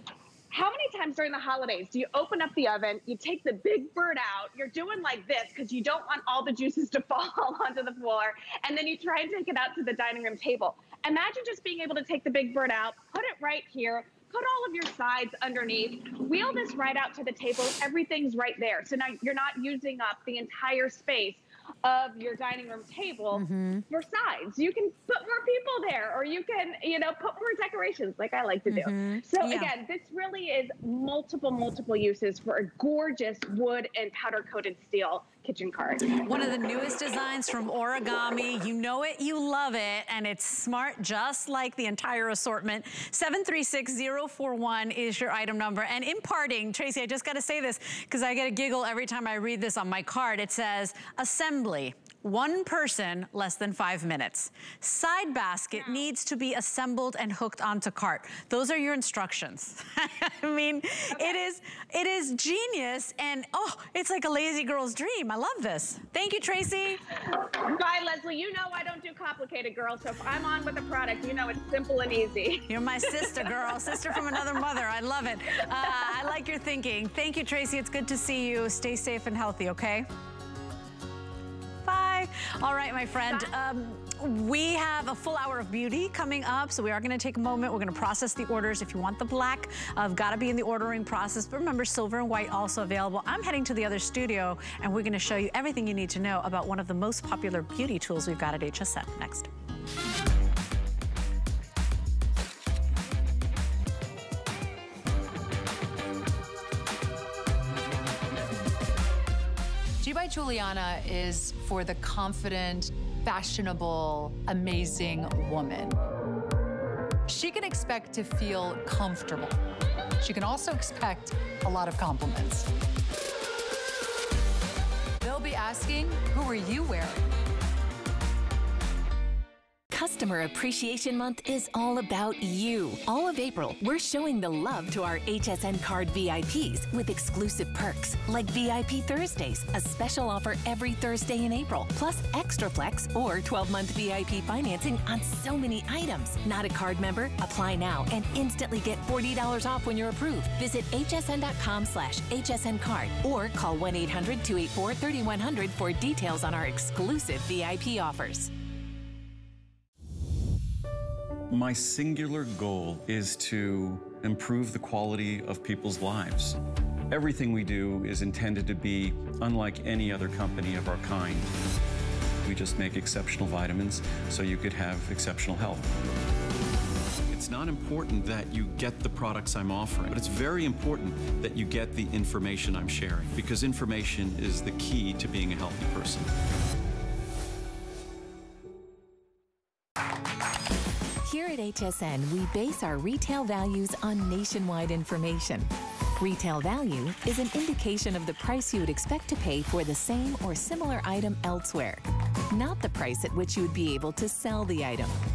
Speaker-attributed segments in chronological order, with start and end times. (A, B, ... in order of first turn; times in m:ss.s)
0:00.5-0:36.2 A
0:23.3-0:23.8 B
0:28.7-0:29.7 B
0:36.0-1:07.0 B
0:55.7-0:56.0 A
1:01.1-1:01.4 A
1:07.2-1:14.6 A
1:12.7-1:20.1 B
1:21.8-1:39.5 B
1:50.0-1:56.0 C
1:57.2-1:59.5 C
2:00.2-2:02.7 C
2:05.2-2:07.2 C
2:09.9-2:38.5 D
2:41.5-2:51.5 E
2:52.4-2:56.0 E
2:57.3-3:06.3 E
3:11.2-3:25.2 D